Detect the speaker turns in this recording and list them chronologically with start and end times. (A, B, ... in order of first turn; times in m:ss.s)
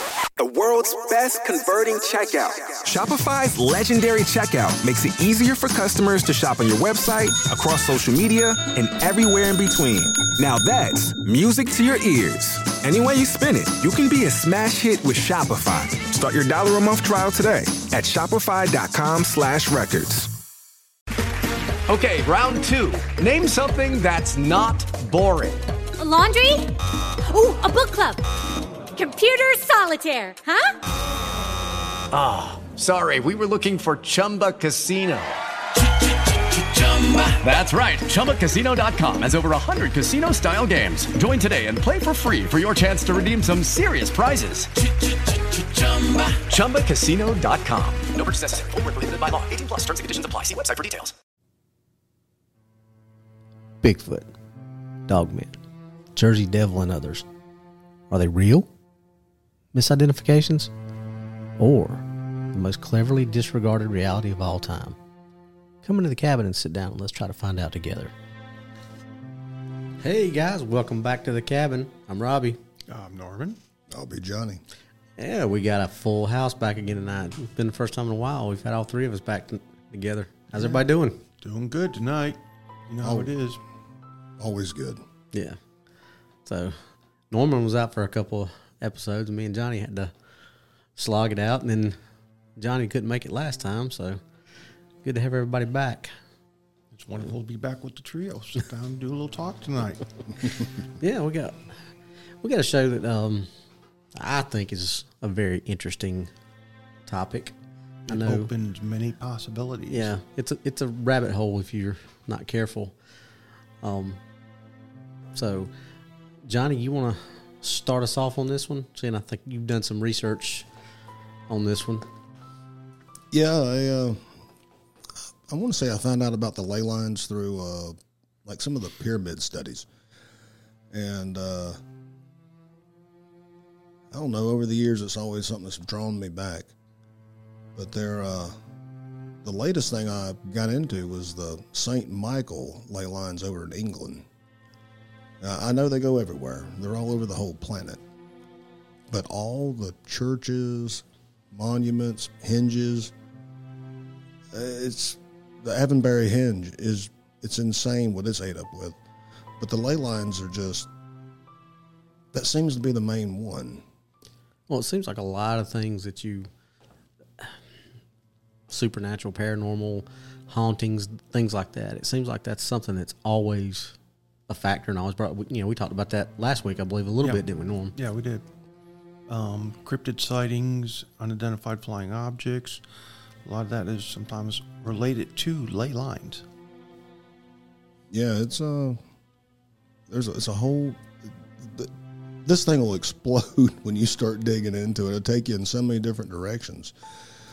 0:00.4-0:20.3 A
0:21.9-0:25.6 B
0:26.0-0:26.7 C
0:27.2-0:28.2 C
0:28.9-0:30.7 C
0:32.1-0:35.4 B
0:36.0-0:51.1 B
0:53.8-0:54.3 D
0:55.1-0:55.6 D
0:56.2-0:57.2 D
0:58.1-0:58.7 D
0:59.7-1:00.7 D
1:01.6-1:05.0 D
1:05.8-1:08.1 D
1:10.0-1:12.6 D
1:12.9-1:13.6 E
1:13.9-1:14.6 F
1:15.2-1:21.2 D
1:20.5-1:20.8 E
1:21.4-1:23.6 E
1:23.0-1:23.3 F
1:24.4-1:25.0 F
1:25.3-1:25.6 D
1:26.4-1:26.8 D
1:27.3-1:30.1 D
1:31.0-1:32.0 D
1:32.6-1:34.2 D
1:35.0-1:36.1 D
1:36.9-1:40.1 E
1:41.0-1:41.8 D
1:42.4-1:43.5 D
1:44.2-1:46.3 D
1:47.1-1:47.6 D
1:48.1-1:48.5 D
1:48.1-1:50.1 E
1:49.9-1:52.9 D
1:53.8-1:54.2 D
1:55.3-1:55.7 D
1:56.4-2:00.7 D
2:01.5-2:02.1 D
2:03.3-2:04.3 F
2:05.5-2:09.9 F
2:10.9-2:11.8 F
2:14.1-2:16.7 F
2:17.7-2:18.5 F
2:19.4-2:24.2 F
2:25.4-2:28.0 F
2:29.1-2:33.1 F
2:34.5-2:39.0 F
2:39.6-2:40.9 F
2:42.3-2:43.8 F
2:44.7-2:46.5 D
2:48.7-2:54.0 D
2:54.5-2:57.9 D
2:57.9-2:58.4 E
2:59.3-3:02.8 E
3:03.4-3:06.4 E
3:08.1-3:09.0 F
3:10.1-3:11.9 F
3:12.4-3:16.9 F